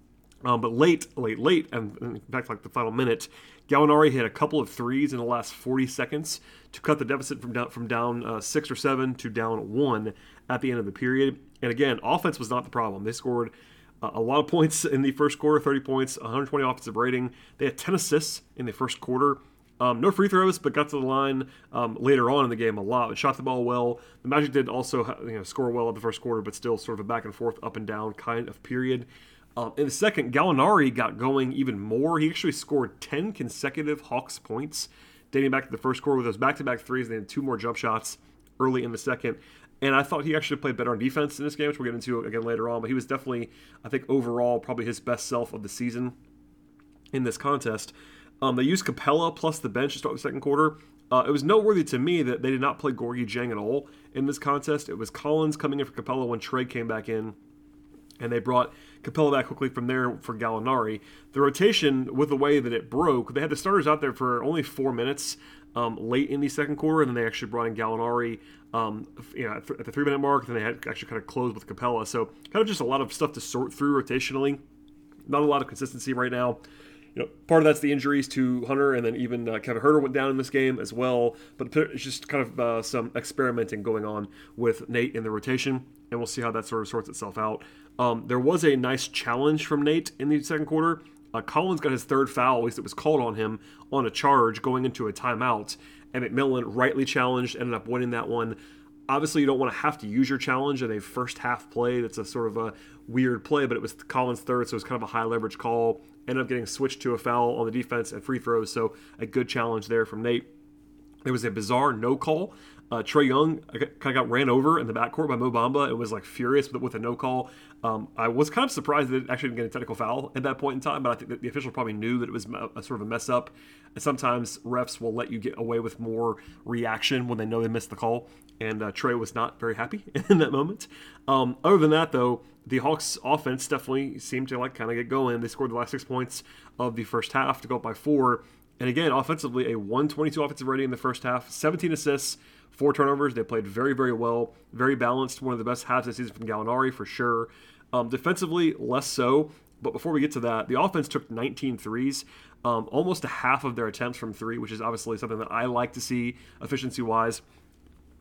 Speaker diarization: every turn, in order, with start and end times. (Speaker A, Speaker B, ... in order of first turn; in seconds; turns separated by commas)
Speaker A: 0.4-46.1, Speaker A: 47.1-57.4, Speaker A: 58.2-74.6, Speaker A: 75.3-76.6, Speaker A: 77.1-98.6, Speaker A: 99.1-110.5, Speaker A: 111.2-157.4